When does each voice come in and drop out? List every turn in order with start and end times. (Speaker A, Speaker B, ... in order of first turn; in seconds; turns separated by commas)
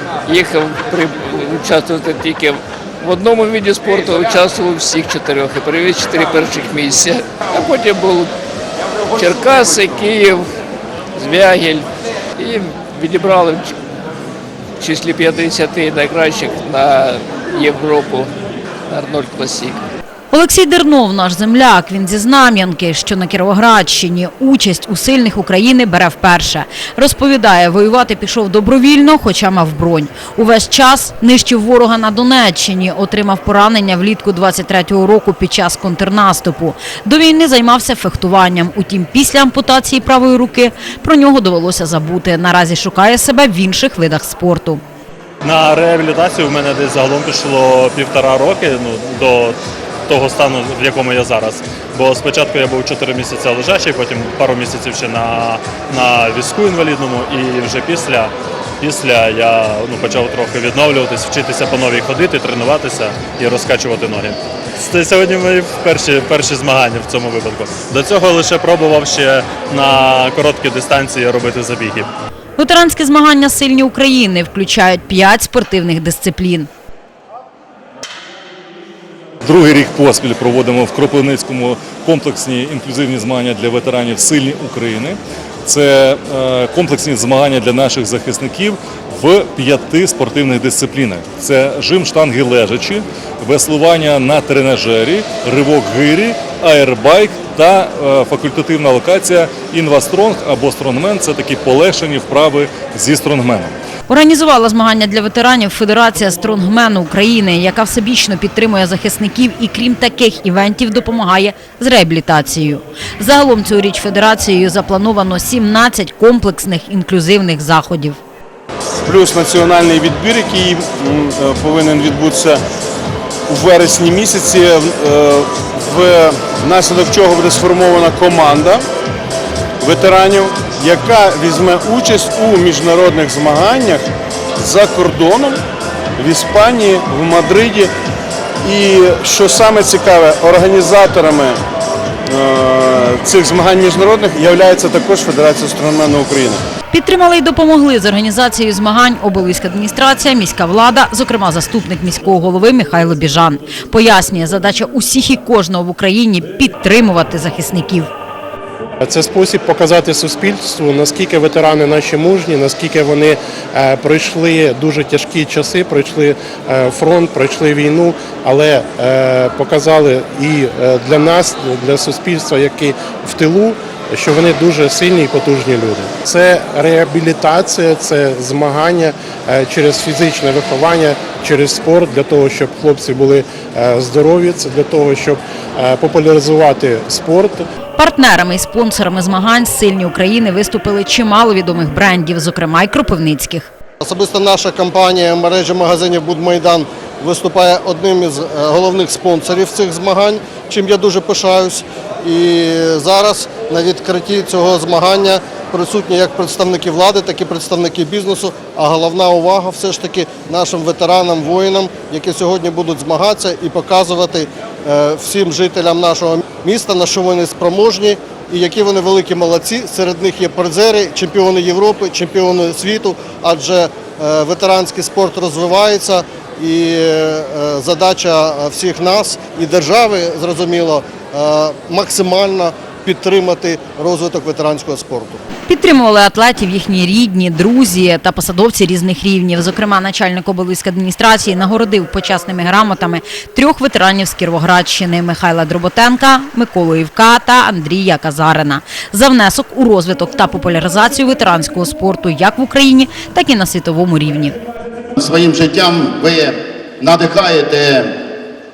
Speaker A: 0.2-8.3, Speaker A: 9.2-10.5, Speaker A: 11.2-11.9, Speaker A: 12.4-13.7, Speaker A: 14.8-18.3, Speaker A: 18.9-19.8, Speaker B: 20.3-44.8, Speaker C: 45.4-72.1, Speaker B: 72.6-76.7, Speaker D: 79.4-103.7, Speaker B: 104.1-118.2, Speaker E: 119.1-122.6, Speaker E: 123.5-128.8, Speaker E: 129.8-134.0, Speaker E: 134.6-135.6, Speaker E: 136.2-137.9, Speaker E: 138.7-141.6, Speaker E: 142.3-146.6, Speaker B: 146.9-158.1, Speaker F: 159.1-187.6, Speaker B: 187.9-193.7, Speaker G: 194.0-235.4, Speaker B: 235.7-254.6, Speaker H: 255.2-258.2